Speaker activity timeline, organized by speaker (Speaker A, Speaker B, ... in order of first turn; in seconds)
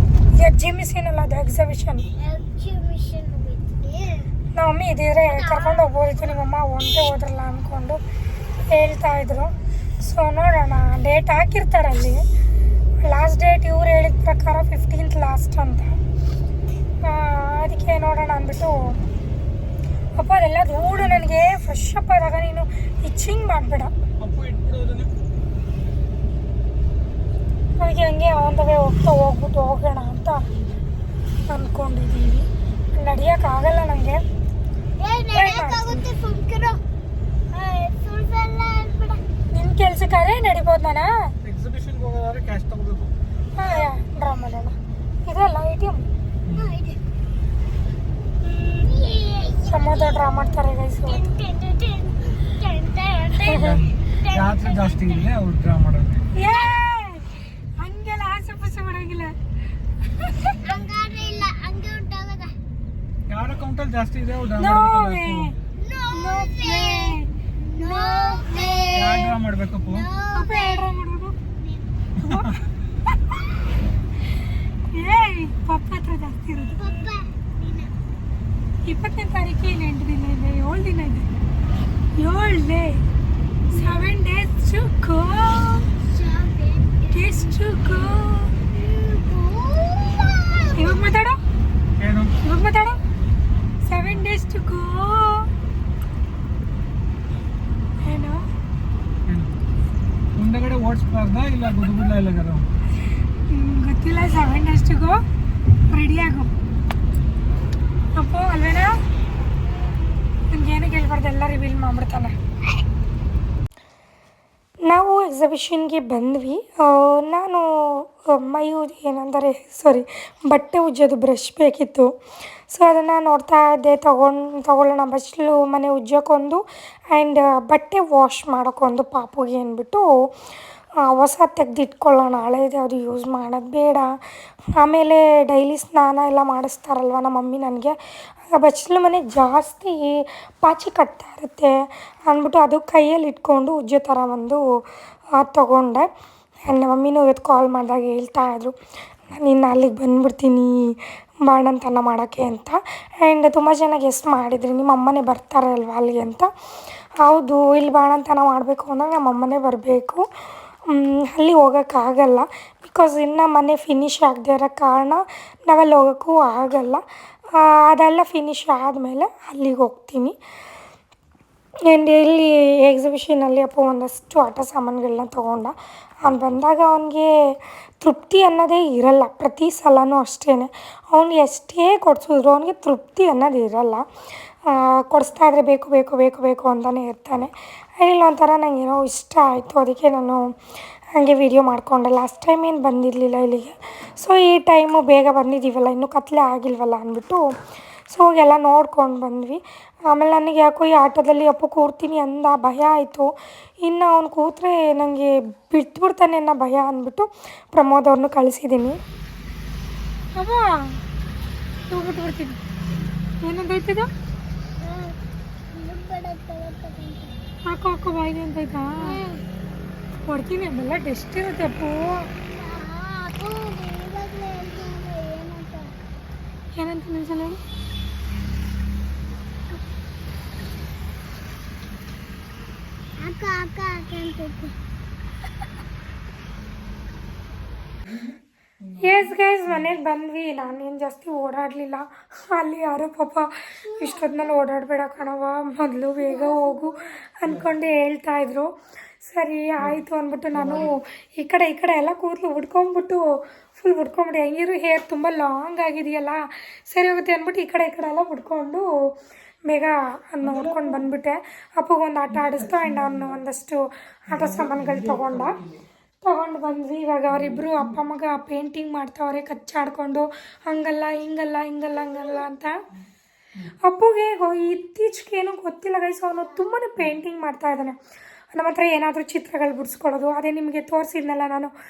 Speaker A: 0.3-2.1, 4.5-8.0, 8.6-12.2, 13.0-16.0, 17.0-19.0, 20.2-23.9, 27.8-30.4, 31.5-34.2, 35.3-36.0, 39.5-41.1, 43.5-46.1, 49.7-51.3, 53.4-53.8, 56.3-59.4, 60.2-60.6, 64.6-65.5, 66.1-69.3, 70.3-71.4, 72.2-72.6, 74.9-76.8, 78.8-81.3, 82.2-83.0, 83.7-85.9, 87.1-88.5, 90.7-91.4, 92.4-93.0, 93.8-95.5, 98.0-98.5, 103.5-105.2, 105.9-106.5, 108.1-109.0, 110.5-112.3, 114.9-122.1, 122.7-130.1, 131.0-134.1, 134.8-137.9, 138.5-141.8, 142.3-144.6, 145.4-146.1, 146.7-148.7, 149.3-150.9, 151.4-156.5, 157.2-160.2, 160.9-167.0, 167.6-170.4, 171.9-177.3, 178.0-184.1, 184.7-190.4, 191.1-197.4, 198.1-203.3, 203.8-209.0, 210.3-211.0, 211.9-212.6, 213.4-214.1, 217.7-219.2, 220.3-222.3, 226.8-227.6, 239.0-248.7, 249.2-258.9, 259.7-265.6, 266.2-272.7, 273.8-278.0, 278.5-281.7
Speaker B: 2.2-4.3, 5.3-5.9, 35.0-36.8, 37.5-39.2, 43.6-43.9, 46.5-47.0, 48.4-55.3, 56.4-56.8, 60.6-62.5, 65.8-69.0, 69.8-70.9, 71.6-72.0, 76.7-78.0, 83.7-84.1, 86.0-87.6, 88.7-91.0, 214.8-215.2, 215.7-217.3, 219.0-219.4, 222.5-226.0, 233.2-234.8, 243.8-244.6, 246.2-247.1
Speaker C: 24.2-25.1, 41.4-43.1, 46.5-46.7, 53.5-56.3, 63.3-65.6, 69.0-70.1, 92.0-92.3, 99.3-99.5, 100.4-102.7, 264.7-265.2